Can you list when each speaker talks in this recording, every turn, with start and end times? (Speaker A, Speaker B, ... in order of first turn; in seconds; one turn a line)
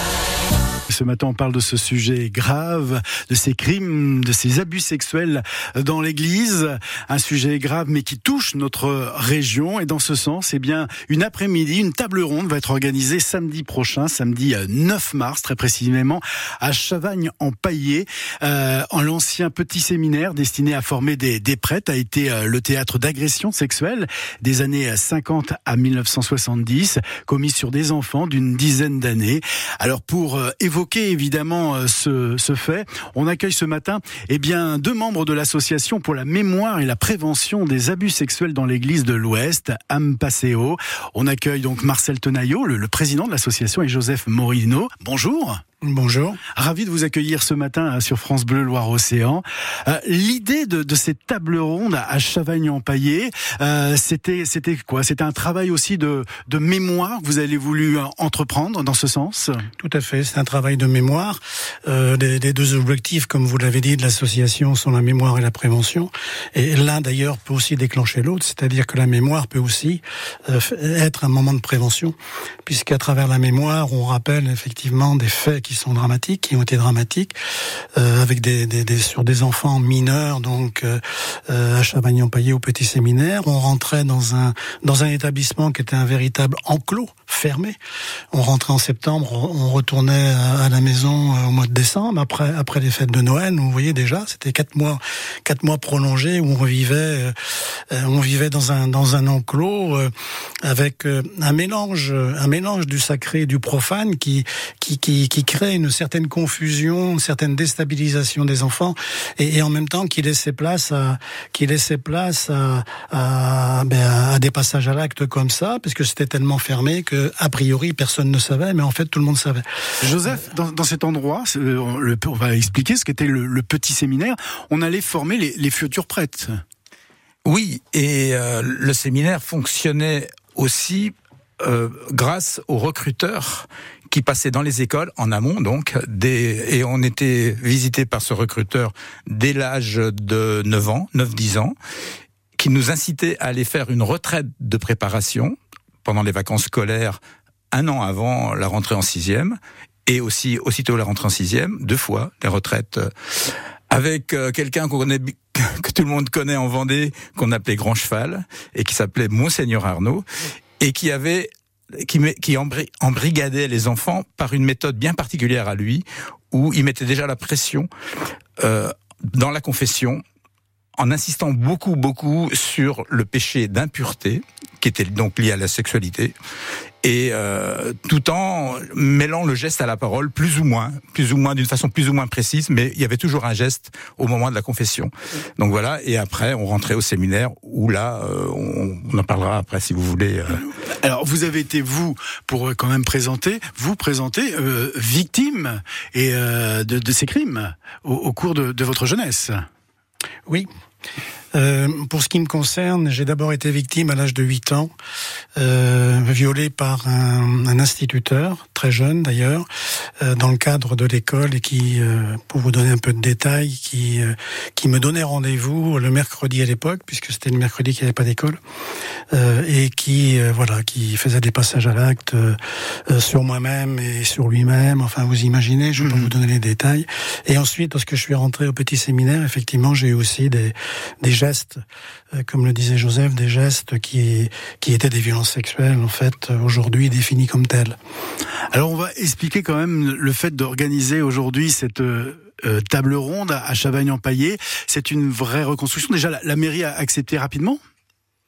Speaker A: 0.9-45.6
Speaker B: 45.8-46.4
Speaker A: 46.5-59.7
Speaker B: 59.8-77.3
Speaker B: 78.0-87.8
Speaker B: 88.3-100.1
Speaker B: 100.6-119.7
Speaker A: 120.0-126.6
Speaker C: 127.5-141.8
Speaker C: 142.6-147.2
Speaker C: 147.7-160.2
Speaker C: 160.8-167.9
Speaker C: 168.6-170.2
Speaker C: 171.0-176.3
Speaker C: 177.0-190.7
Speaker A: 191.0-199.7
Speaker B: 201.5-204.9
Speaker B: 205.6-218.6
Speaker B: 219.3-231.8
Speaker A: 226.0-226.3
Speaker B: 232.3-238.0
Speaker A: 238.7-247.8